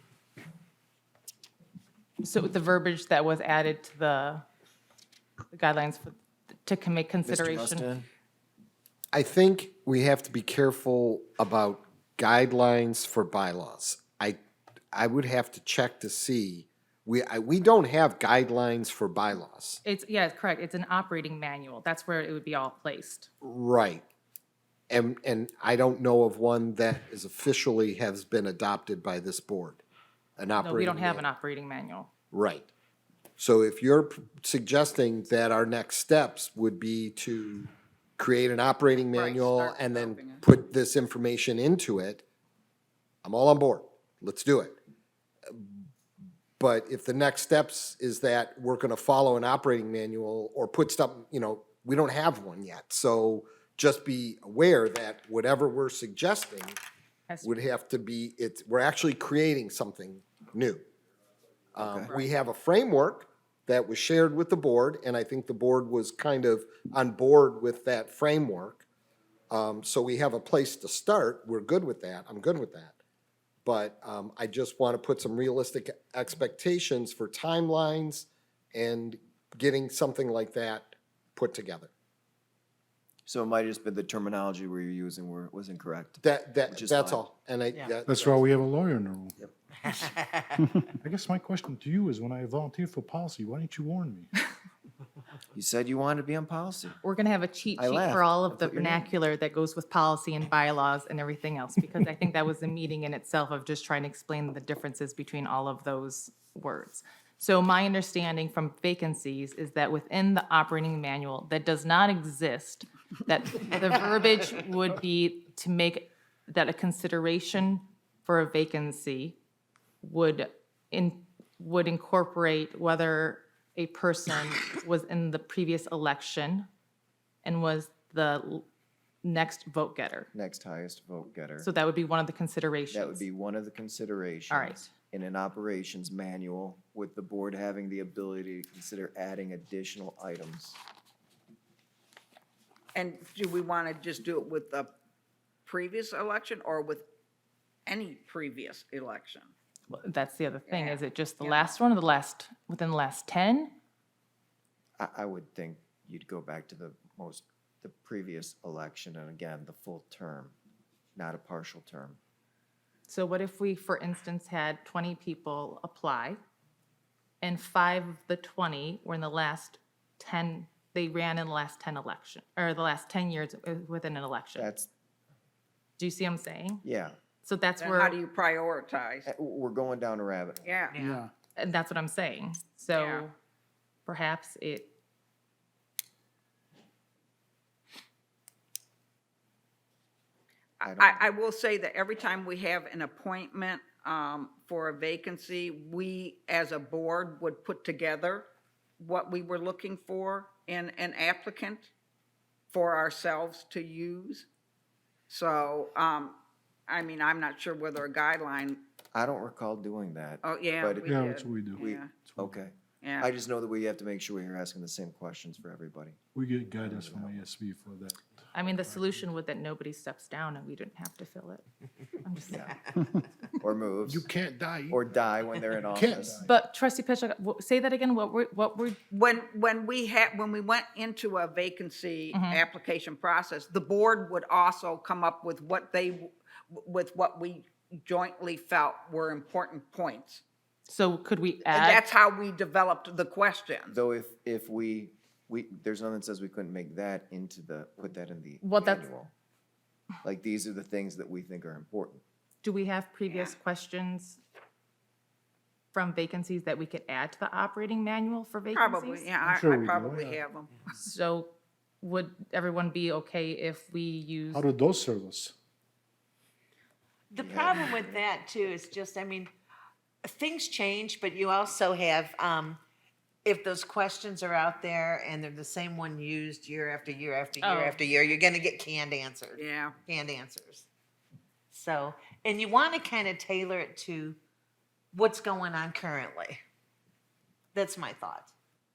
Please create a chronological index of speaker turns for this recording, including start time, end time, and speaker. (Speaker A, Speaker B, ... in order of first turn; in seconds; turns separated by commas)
Speaker A: 2.2-4.4, Speaker A: 5.5-7.9, Speaker B: 7.2-8.1, Speaker C: 9.1-14.4, Speaker C: 14.9-19.8, Speaker A: 19.8-23.3, Speaker C: 23.4-24.0, Speaker C: 24.9-29.8, Speaker C: 30.4-31.2, Speaker A: 30.6-32.1, Speaker C: 32.3-32.7, Speaker C: 33.4-42.2, Speaker D: 39.1-40.4, Speaker C: 43.2-44.8, Speaker C: 46.6-56.8, Speaker C: 57.4-60.8, Speaker B: 61.8-62.1, Speaker C: 61.8-68.8, Speaker C: 69.5-73.0, Speaker C: 73.6-81.9, Speaker B: 83.2-87.2, Speaker C: 86.2-88.5, Speaker E: 88.0-94.3, Speaker B: 95.5-97.0, Speaker A: 97.0-119.4, Speaker B: 97.8-99.1, Speaker A: 120.0-126.7, Speaker A: 127.4-128.6, Speaker A: 129.2-130.3, Speaker B: 130.3-131.7, Speaker A: 131.6-133.2, Speaker B: 132.9-140.8, Speaker A: 134.5-134.9, Speaker D: 142.9-144.9, Speaker D: 145.7-147.0, Speaker D: 147.8-149.5, Speaker A: 149.9-153.7, Speaker D: 150.7-151.7, Speaker B: 155.0-160.5, Speaker B: 161.2-162.2, Speaker A: 163.1-166.4, Speaker A: 167.4-174.7, Speaker B: 174.5-174.9, Speaker A: 176.0-176.8, Speaker B: 176.8-177.2, Speaker A: 177.4-178.2, Speaker D: 177.8-179.3, Speaker B: 179.3-180.8, Speaker D: 180.6-181.0, Speaker F: 180.9-181.2, Speaker A: 181.6-183.3, Speaker D: 182.9-183.3, Speaker A: 184.1-184.9, Speaker D: 190.8-198.4, Speaker B: 190.8-191.2, Speaker D: 199.0-201.9, Speaker D: 202.7-204.5, Speaker D: 205.3-208.8, Speaker B: 209.1-211.1, Speaker D: 210.4-212.1, Speaker E: 211.0-212.7, Speaker B: 211.8-216.2, Speaker D: 213.0-213.3, Speaker E: 216.3-219.1, Speaker B: 216.8-217.4, Speaker A: 218.5-221.6, Speaker A: 222.2-222.8, Speaker B: 222.5-222.8, Speaker B: 223.6-224.3, Speaker E: 224.0-225.1, Speaker B: 224.9-226.4, Speaker E: 225.9-226.5, Speaker A: 226.4-229.0, Speaker D: 229.1-240.4, Speaker A: 232.3-232.6, Speaker A: 240.9-242.0, Speaker D: 241.7-244.0, Speaker B: 243.9-249.3, Speaker A: 248.6-249.1, Speaker B: 250.2-252.2, Speaker A: 252.6-254.4, Speaker D: 253.3-253.5, Speaker A: 255.9-259.3, Speaker D: 258.7-260.8, Speaker E: 259.4-260.4, Speaker A: 261.0-264.7, Speaker E: 264.5-265.5, Speaker F: 267.3-269.5, Speaker B: 267.4-268.3, Speaker F: 270.2-272.8, Speaker F: 273.4-279.6, Speaker A: 277.6-278.0, Speaker D: 279.6-279.9, Speaker F: 280.1-280.9, Speaker F: 281.7-284.4, Speaker F: 285.1-286.6, Speaker F: 287.7-288.5